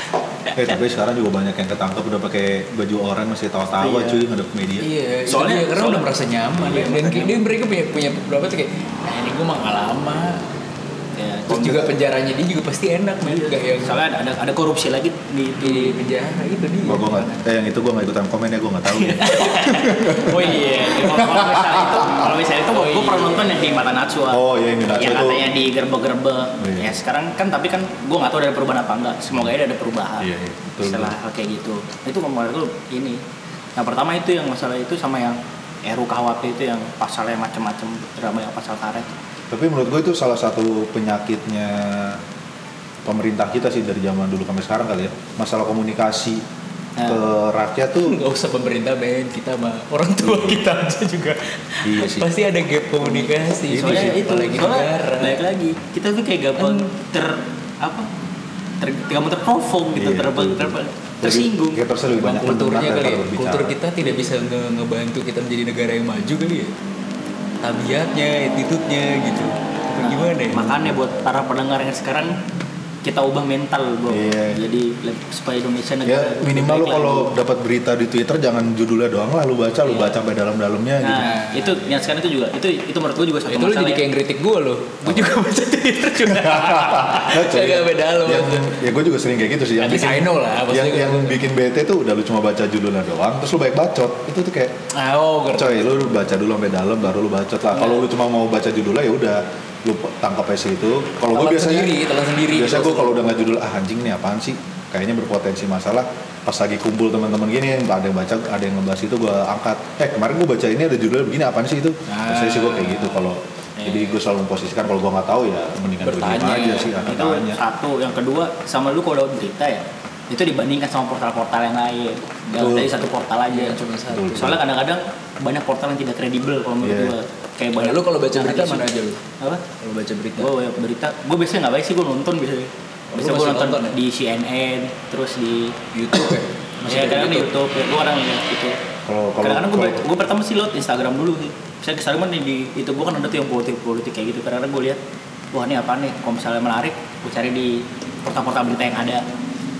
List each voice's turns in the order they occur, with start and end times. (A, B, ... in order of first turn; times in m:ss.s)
0:00.6-0:04.9 A
0:03.8-0:04.2 B
0:04.8-0:10.5 C
0:05.3-0:07.4 B
0:11.2-0:11.9 B
0:11.5-0:13.9 C
0:13.2-0:16.0 B
0:15.6-0:17.4 C
0:16.8-0:20.4 A
0:19.0-0:19.4 B
0:19.2-0:21.8 C
0:20.2-0:24.4 B
0:21.0-0:22.3 A
0:22.7-0:23.9 C
0:24.3-0:25.5 A
0:24.9-0:30.3 B
0:26.6-0:26.9 A
0:30.2-0:31.1 A
0:30.8-0:33.2 B
0:33.8-0:39.1 B
0:39.5-0:42.2 A
0:43.0-0:46.4 A
0:47.0-0:47.2 B
0:47.1-0:48.2 A
0:48.0-0:55.4 C
0:50.2-0:50.6 A
0:51.8-0:52.3 A
0:53.7-0:54.4 A
0:53.8-0:58.1 B
0:56.6-0:56.9 C
0:58.8-1:01.8 B
0:59.9-1:03.8 A
1:02.1-1:06.7 C
1:07.6-1:10.7 C
1:09.9-1:12.3 B
1:10.7-1:10.9 A
1:13.0-1:17.3 B
1:14.1-1:14.6 A
1:16.0-1:21.3 A
1:21.0-1:24.0 B
1:21.1-1:21.8 C
1:23.5-1:28.8 C
1:25.0-1:25.4 A
1:26.2-1:34.7 A
1:29.8-1:31.4 C
1:34.9-1:36.1 C
1:35.5-1:57.6 A
1:41.3-1:43.4 C
1:52.1-1:54.2 C
1:56.0-1:57.1 C
1:57.1-2:03.8 B
2:02.5-2:02.9 A
2:03.5-2:04.6 C
2:04.1-2:04.6 A
2:04.4-2:08.9 B
2:06.8-2:07.2 A
2:07.8-2:09.2 C
2:09.8-2:10.5 C
2:10.4-2:15.8 B
2:13.1-2:14.0 C
2:15.9-2:17.5 C
2:16.9-2:18.8 B
2:19.0-2:20.0 A
2:19.4-2:25.0 B
2:25.5-2:29.2 B